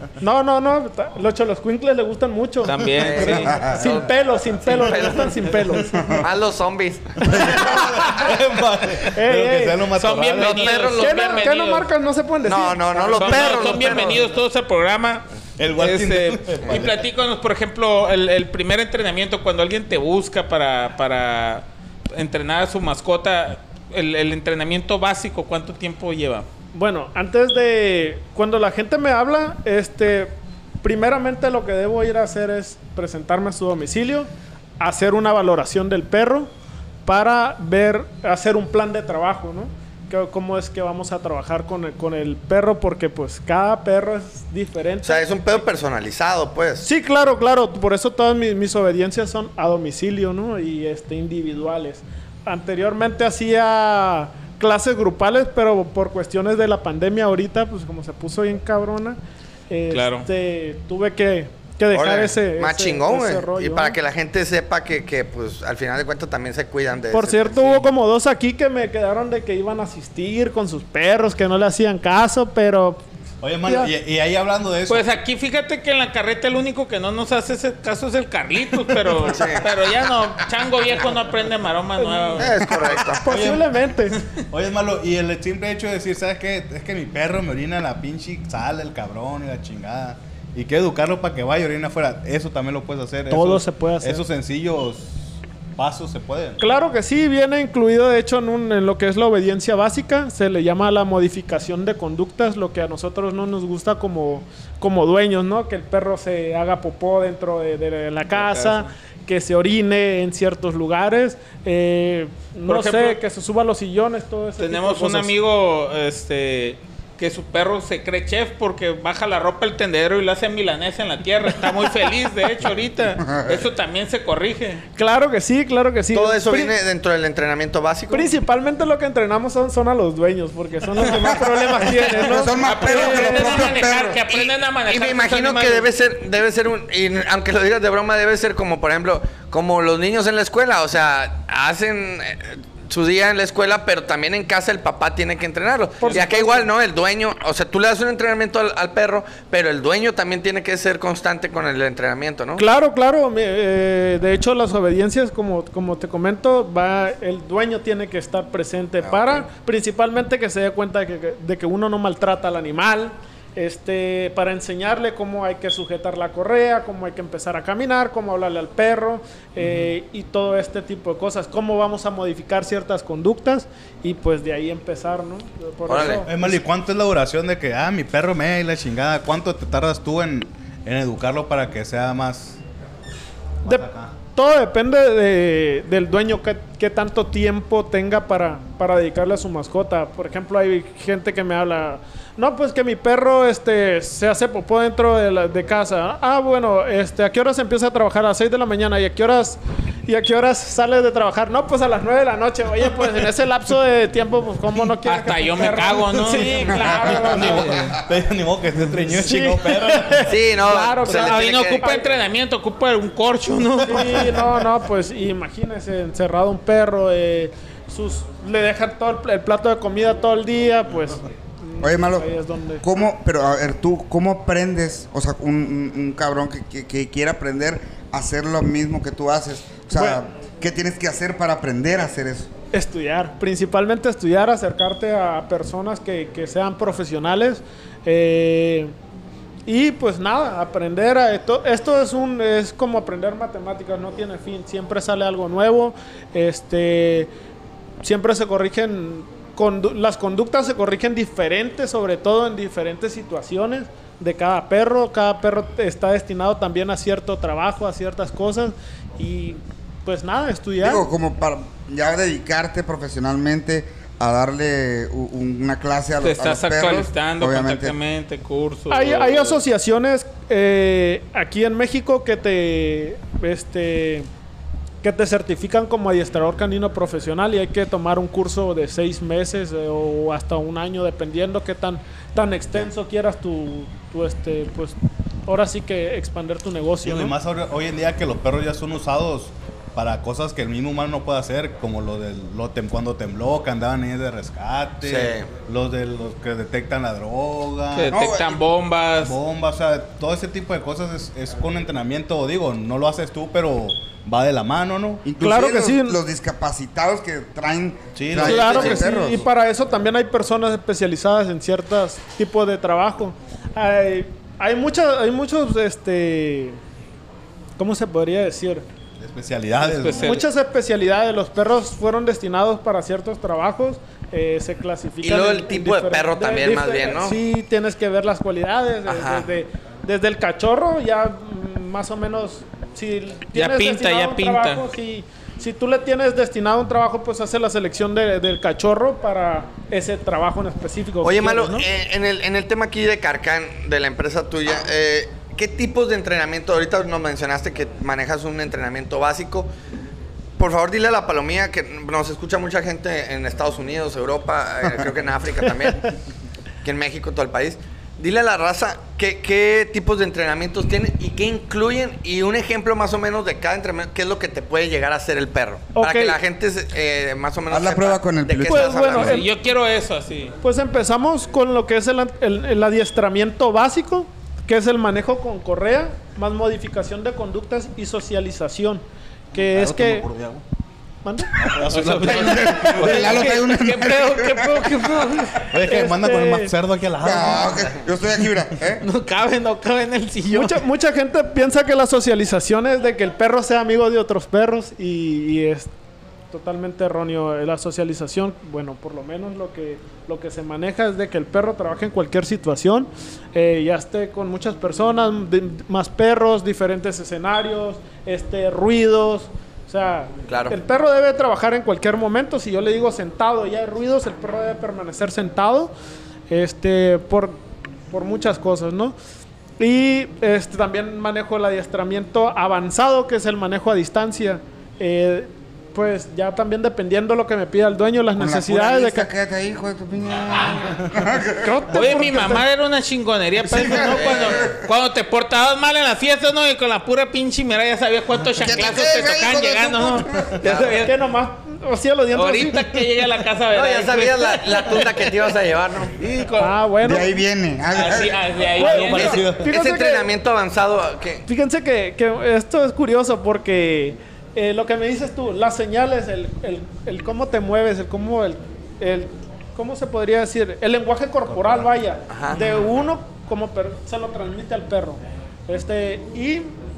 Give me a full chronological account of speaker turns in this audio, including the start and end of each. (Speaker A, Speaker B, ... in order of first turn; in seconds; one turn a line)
Speaker A: 0.2-6.2
Speaker B: 2.6-3.6
Speaker C: 2.9-4.1
Speaker C: 4.6-5.6
Speaker C: 6.2-8.2
Speaker D: 7.2-10.8
Speaker A: 9.2-9.9
Speaker B: 9.9-11.9
Speaker C: 10.3-11.5
Speaker A: 11.0-14.2
Speaker C: 12.4-14.2
Speaker B: 13.2-26.5
Speaker D: 15.6-17.0
Speaker A: 26.7-36.5
Speaker A: 37.0-45.6
Speaker C: 45.0-46.9
Speaker A: 46.8-59.2
Speaker A: 59.7-64.0
Speaker B: 59.9-60.3
Speaker C: 61.9-67.9
Speaker A: 67.1-73.0
Speaker D: 73.4-75.1
Speaker A: 73.7-73.9
Speaker B: 74.9-82.6
Speaker C: 79.2-79.7
Speaker A: 82.0-82.6
Speaker C: 82.4-83.3
Speaker A: 83.2-84.2
Speaker D: 83.3-83.7
Speaker D: 84.5-96.6
Speaker A: 93.3-94.2
Speaker A: 96.6-115.3
Speaker B: 112.7-113.2
Speaker B: 114.6-124.8
Speaker E: 123.2-123.6
Speaker A: 125.0-126.7
Speaker C: 126.1-128.3
Speaker A: 128.1-133.8
Speaker E: 131.2-134.2
Speaker B: 132.6-135.9
Speaker C: 134.3-152.6
Speaker A: 146.0-146.7
Speaker A: 152.6-176.6
Speaker C: 159.0-159.4
Speaker D: 169.6-169.9
Speaker C: 175.9-176.2
Speaker D: 176.2-182.6
Speaker D: 183.6-184.1
Speaker A: 183.7-207.9
Speaker B: 205.0-206.9
Speaker E: 206.7-208.0
Speaker D: 207.0-210.4
Speaker B: 207.4-207.9
Speaker A: 209.1-212.2
Speaker C: 210.3-212.0
Speaker B: 211.0-214.3
Speaker A: 213.8-222.8
Speaker E: 221.8-222.3
Speaker E: 222.8-232.5
Speaker A: 229.9-230.2
Speaker A: 232.7-238.9
Speaker A: 239.7-247.3
Speaker A: 248.0-261.1
Speaker E: 260.8-267.9
Speaker B: 266.2-269.6
Speaker A: 268.9-274.3
Speaker A: 275.0-287.4
Speaker D: 287.0-298.2
Speaker C: 295.0-295.5
Speaker B: 297.9-299.4
Speaker E: 298.1-298.6
Speaker D: 299.2-305.2
Speaker E: 305.2-309.5
Speaker A: 305.4-306.2
Speaker D: 308.1-309.0
Speaker A: 308.4-316.8
Speaker A: 317.8-318.9
Speaker D: 319.2-320.4
Speaker B: 319.8-320.4
Speaker A: 320.0-341.9
Speaker C: 325.2-327.4
Speaker C: 329.1-329.5
Speaker B: 333.5-334.8
Speaker C: 341.2-349.7
Speaker C: 350.6-356.1
Speaker C: 356.8-369.4
Speaker A: 365.9-366.4
Speaker E: 367.7-369.4
Speaker A: 368.7-369.5
Speaker B: 369.2-370.6
Speaker A: 370.6-380.3
Speaker D: 379.5-380.6
Speaker A: 381.2-381.6
Speaker D: 381.6-383.5
Speaker B: 381.8-385.7
Speaker E: 382.3-385.3
Speaker D: 385.7-388.0
Speaker A: 385.9-386.7
Speaker E: 387.2-389.0
Speaker B: 389.0-390.8
Speaker A: 390.5-395.9
Speaker A: 396.5-415.9
Speaker C: 410.5-410.8
Speaker A: 416.5-419.2
Speaker A: 419.8-429.3
Speaker E: 428.4-431.8
Speaker A: 431.6-432.7
Speaker B: 431.9-441.1
Speaker E: 433.6-434.9
Speaker C: 434.1-434.6
Speaker E: 438.6-440.6
Speaker C: 440.6-441.0
Speaker A: 440.7-442.9
Speaker B: 442.3-445.3
Speaker C: 443.7-446.1
Speaker B: 446.2-446.8
Speaker A: 446.6-447.4
Speaker E: 447.0-448.5
Speaker D: 447.9-449.8
Speaker B: 448.0-449.5
Speaker A: 448.8-450.3
Speaker C: 449.1-451.5
Speaker A: 451.5-466.7
Speaker D: 461.5-461.9
Speaker C: 462.3-462.6